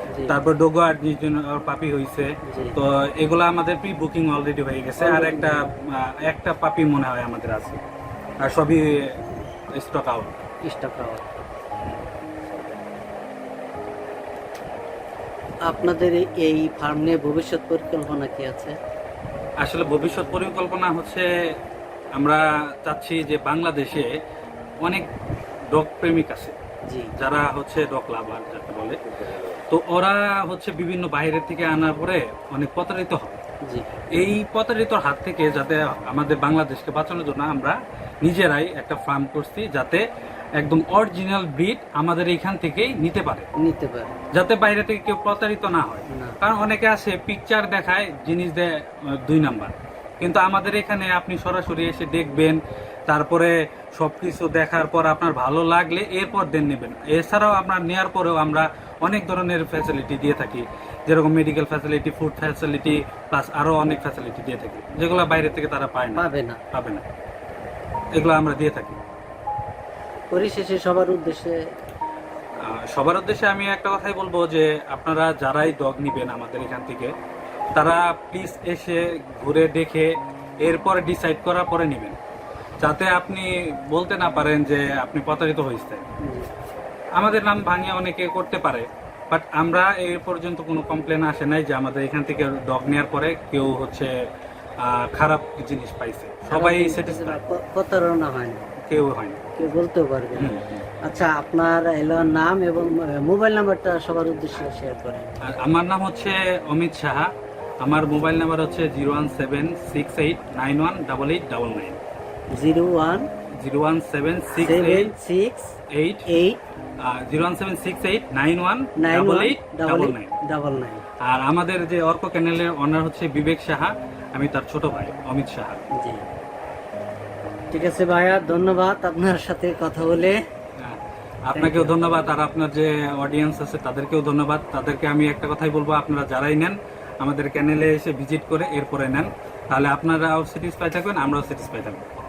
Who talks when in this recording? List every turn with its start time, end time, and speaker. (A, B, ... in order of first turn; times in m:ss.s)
0:00.1-0:00.4 A
0:00.3-0:07.8 B
0:02.5-0:02.8 A
0:05.0-0:05.6 A
0:08.4-0:08.9 B
0:09.8-0:10.4 B
0:10.6-0:11.3 A
0:15.7-0:18.8 A
0:19.6-0:21.3 B
0:22.2-0:24.1 B
0:24.8-0:25.1 B
0:25.7-0:26.6 B
0:27.2-0:33.4 B
0:34.1-0:40.0 B
0:40.6-0:43.5 B
0:43.6-0:44.1 A
0:44.3-0:48.7 B
0:46.1-0:46.4 A
0:49.3-1:07.0 B
1:06.2-1:06.6 A
1:08.2-1:09.0 B
1:10.3-1:11.6 A
1:12.7-1:17.1 B
1:17.8-1:22.2 B
1:22.8-1:26.1 B
1:26.2-1:26.5 A
1:27.2-1:34.1 B
1:34.8-1:37.4 B
1:36.5-1:38.6 A
1:38.9-1:39.4 B
1:39.6-1:45.3 A
1:40.4-1:40.6 B
1:45.5-1:47.3 B
1:47.8-1:52.0 B
1:52.5-1:53.3 A
1:53.6-1:55.1 B
1:54.6-1:55.7 A
1:55.9-1:56.3 B
1:56.3-1:56.6 A
1:57.1-2:00.4 B
1:59.0-2:01.0 A
2:01.2-2:05.9 B
2:06.0-2:06.2 A
2:07.7-2:10.4 A
2:11.5-2:22.1 B
2:11.5-2:12.4 A